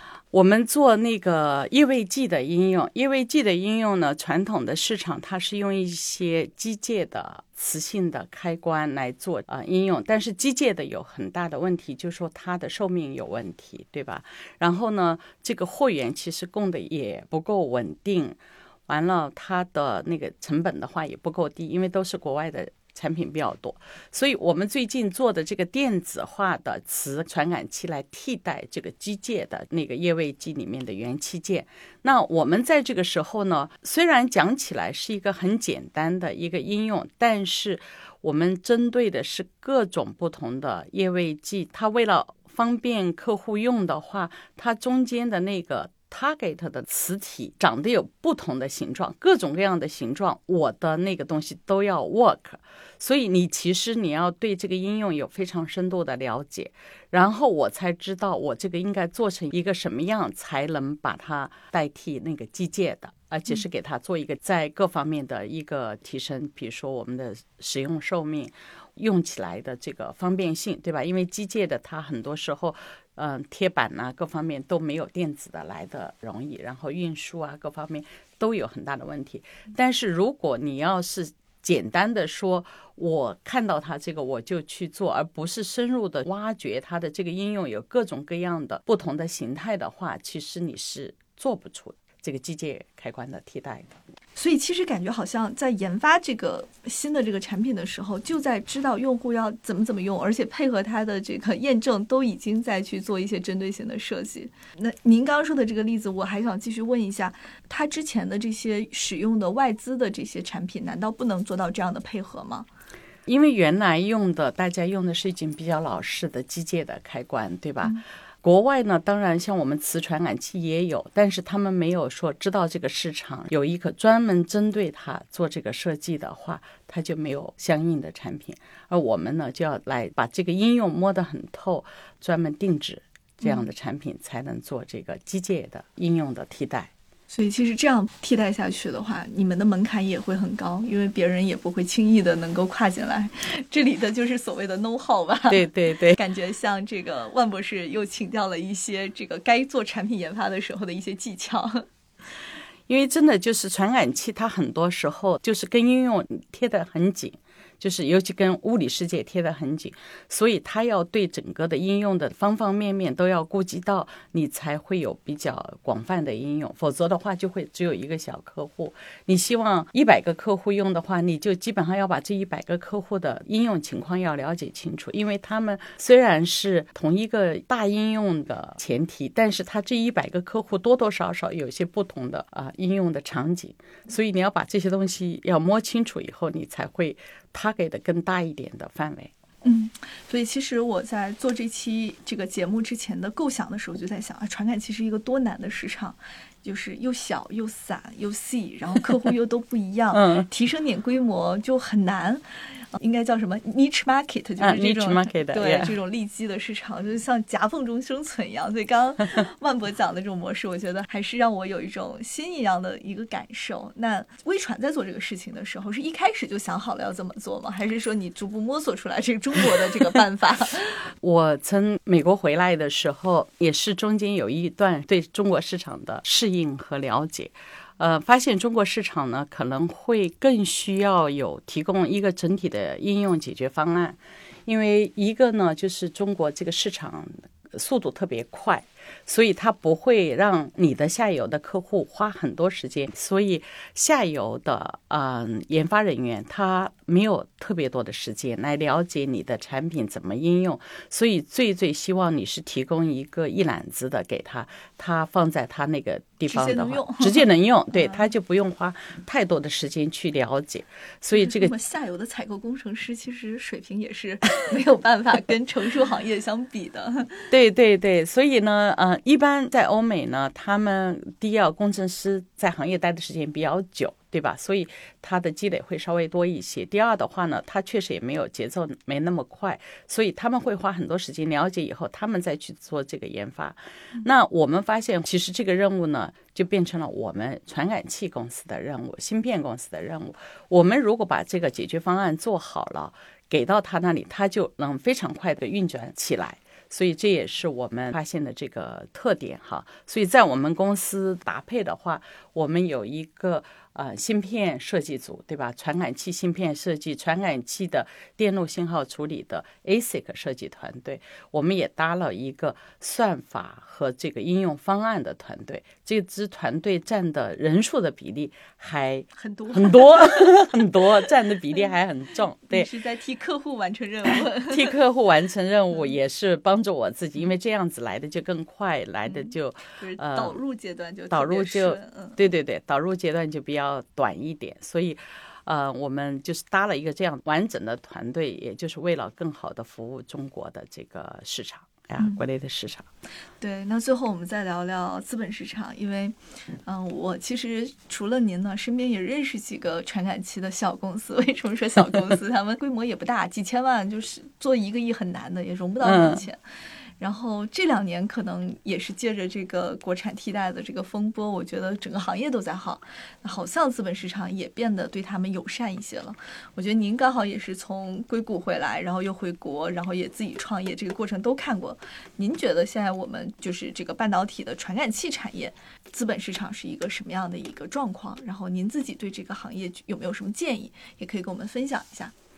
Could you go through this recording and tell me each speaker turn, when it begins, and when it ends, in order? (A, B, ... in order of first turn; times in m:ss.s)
0:00.3-1:34.0 A
1:34.4-1:52.7 B
1:53.3-2:16.9 A
2:13.4-2:13.7 B
2:17.3-2:31.9 B
2:25.5-2:26.2 A
2:32.9-3:09.3 A
3:09.6-3:22.4 B
3:20.1-3:20.5 A
3:22.9-3:41.0 B
3:24.6-3:26.0 A
3:41.2-4:21.7 A
4:16.5-4:18.2 B
4:21.3-4:27.5 B
4:27.5-5:22.9 A
5:19.4-5:20.7 B
5:22.7-5:24.9 B
5:24.7-5:30.6 A
5:29.3-5:32.4 B
5:31.3-5:43.1 A
5:43.6-5:56.6 B
5:56.0-5:56.4 A
5:57.2-6:22.3 B